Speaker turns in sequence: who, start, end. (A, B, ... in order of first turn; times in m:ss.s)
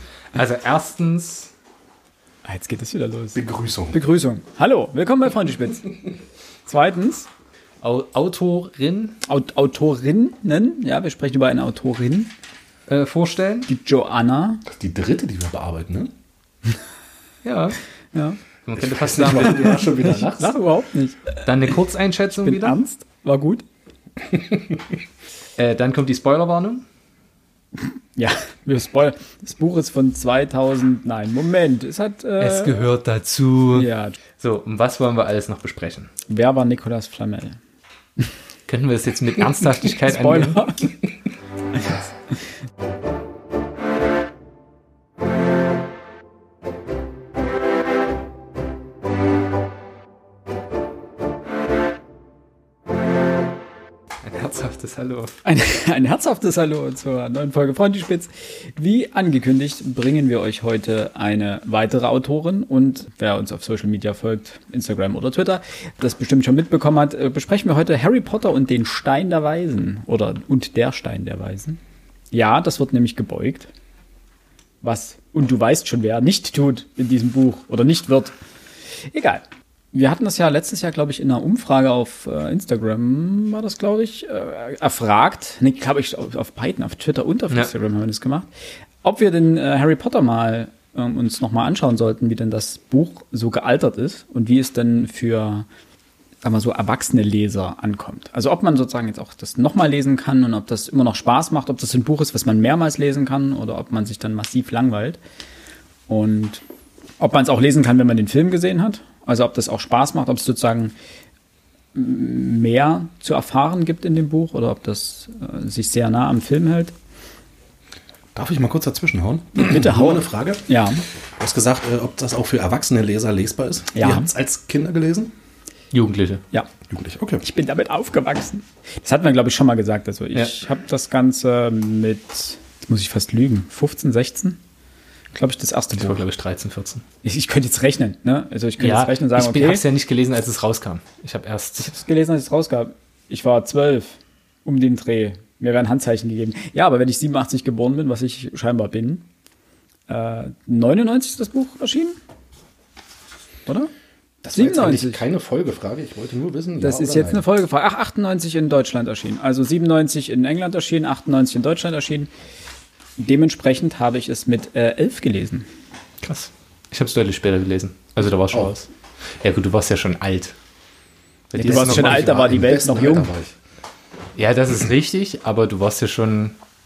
0:00.3-0:01.5 A
0:02.4-0:03.4 B
0:03.3-0:04.0 C
0:03.9-0:06.0 B
0:06.6-0:07.3 B
0:07.8-0:09.2 A
0:09.3-0:12.3 B
0:12.9-0:13.7 A
0:13.7-0:14.6 B
0:14.6-0:16.1 C
0:17.4-0:17.8 A
0:18.6-0:19.8 A
0:18.8-0:20.5 C
0:19.4-0:21.4 B
0:21.4-0:22.8 A
0:22.4-0:23.6 B
0:24.3-0:24.8 C
0:25.6-0:26.8 A
0:28.2-0:32.8 B
0:32.4-0:36.1 A
0:33.7-0:34.2 B
0:36.3-0:37.6 B
0:38.7-0:40.7 A
0:39.9-0:40.9 B
0:54.2-0:55.3 A
0:55.4-1:11.8 B
1:12.3-1:13.7 B
1:14.8-1:18.3 B
1:19.1-1:28.5 B
1:29.0-1:35.6 B
1:36.4-1:45.2 B
1:46.1-1:46.6 B
1:47.2-1:50.9 B
1:51.9-1:56.9 B
1:58.3-2:00.7 C
1:59.5-2:01.0 B
2:01.4-2:05.3 C
2:03.9-2:04.3 B
2:05.9-2:06.4 A
2:06.9-2:07.4 C
2:07.4-2:14.6 B
2:15.3-2:16.2 B
2:15.9-2:17.0 A
2:17.2-2:19.8 B
2:18.8-2:22.0 A
2:21.8-2:29.3 B
2:30.1-2:32.2 B
2:34.4-2:37.4 C
2:34.5-2:35.2 B
2:36.8-2:42.3 B
2:43.2-2:45.6 B
2:46.2-2:48.9 A
2:49.4-2:50.6 A
2:51.5-2:52.4 A
2:51.6-2:53.3 B
2:51.6-2:53.5 C
2:54.4-2:56.6 A